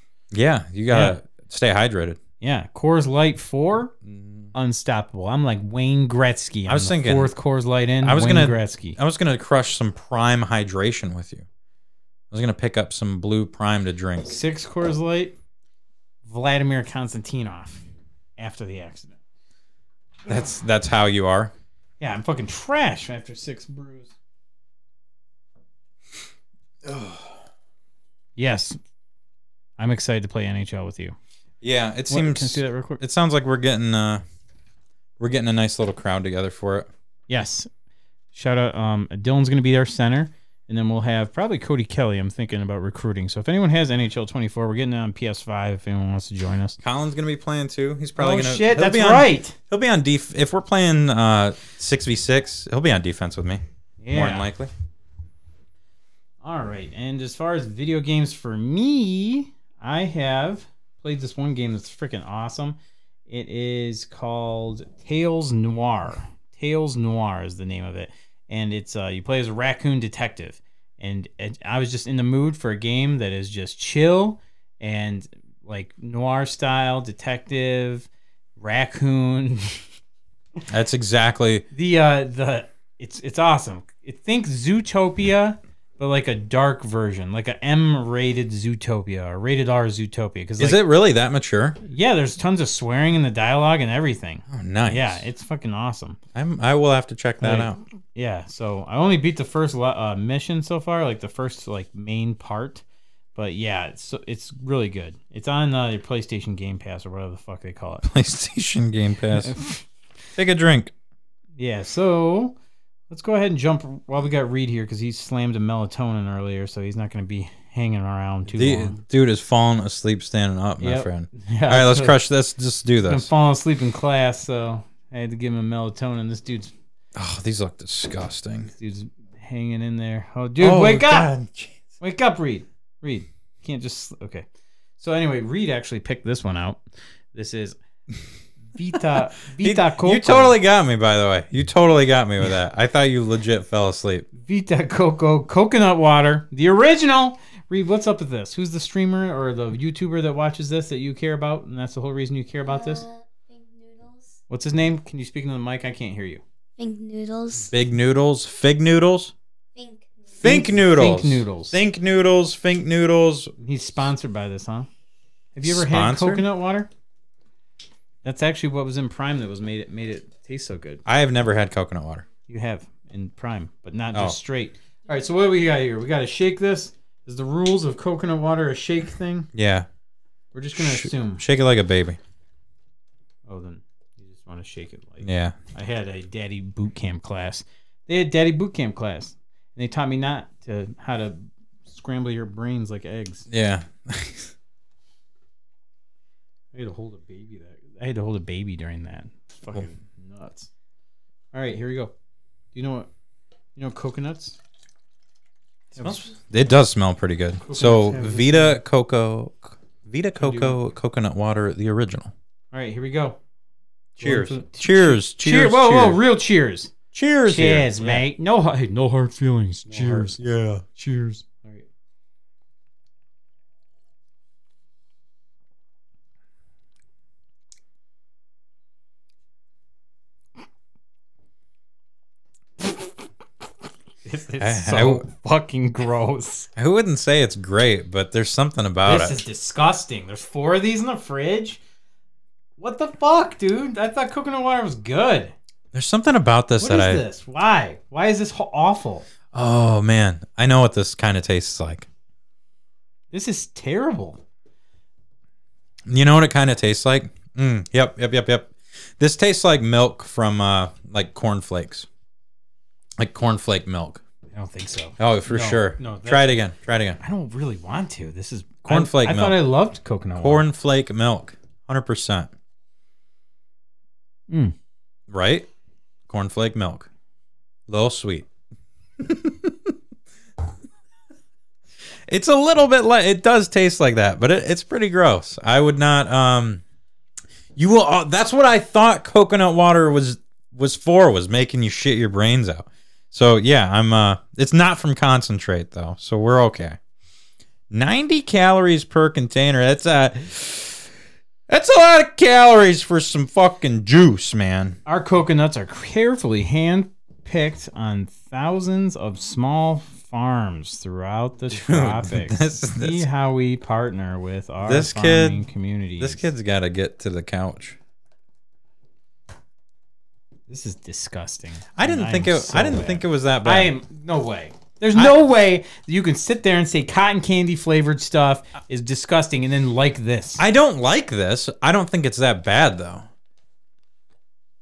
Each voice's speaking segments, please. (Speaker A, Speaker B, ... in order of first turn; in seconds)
Speaker A: 0.3-2.2, 4.0-4.5, 6.7-7.3, 8.0-11.4, 12.3-14.3, 20.2-21.5, 26.8-27.4, 31.6-34.2, 35.2-36.9, 46.8-54.7, 80.7-81.6, 90.6-91.8, 94.5-95.2, 96.3-97.8, 108.0-109.6, 110.3-110.9, 118.5-123.3, 127.1-128.7, 130.6-131.8, 139.6-144.3, 157.7-159.3, 160.4-163.5, 165.6-166.4, 171.1-172.2, 179.5-179.9, 180.8-182.2, 185.2-185.6, 193.5-194.5, 206.0-212.3, 214.2-216.2, 217.1-218.2, 219.9-220.8, 234.6-235.2, 236.8-239.4, 245.9-247.2, 249.5-252.1, 256.1-262.1, 263.2-264.2, 265.2-267.2, 268.8-269.6, 270.4-272.5, 275.3-275.7, 276.3-277.1, 277.9-278.5, 279.2-279.9, 282.3-286.8, 287.8-297.0, 297.9-301.1, 301.7-305.0, 311.7-313.2, 314.8-315.6, 316.2-318.0, 321.9-323.9, 330.6-333.3
Speaker B: 0.9-1.2, 2.4-3.9, 4.5-9.0, 14.2-15.3, 16.2-17.8, 18.4-19.2, 22.0-24.1, 28.4-28.8, 29.8-31.1, 32.1-33.0, 37.3-37.7, 38.3-46.8, 48.2-49.5, 54.0-54.5, 56.4-79.8, 81.7-90.8, 91.8-96.2, 97.4-102.8, 103.3-108.1, 109.3-109.8, 111.6-112.5, 113.1-119.0, 120.8-122.2, 123.0-126.7, 128.7-131.3, 132.0-134.4, 135.0-136.8, 137.3-137.8, 138.7-140.6, 144.4-153.0, 154.5-156.4, 160.4-161.8, 163.6-164.9, 165.5-166.9, 168.2-171.0, 172.5-179.5, 180.5-181.4, 183.5-193.5, 196.7-200.7, 201.5-202.1, 202.7-203.1, 203.8-204.6, 205.9-206.3, 207.6-208.8, 210.4-210.8, 212.7-213.4, 214.2-216.9, 217.4-220.4, 220.9-221.8, 234.2-236.7, 239.0-241.8, 242.8-245.5, 246.8-249.3, 253.3-254.4, 264.5-266.6, 267.2-270.6, 274.5-274.7, 305.1-316.5, 320.7-330.6
Speaker C: 152.7-154.4, 156.8-157.7, 159.8-160.4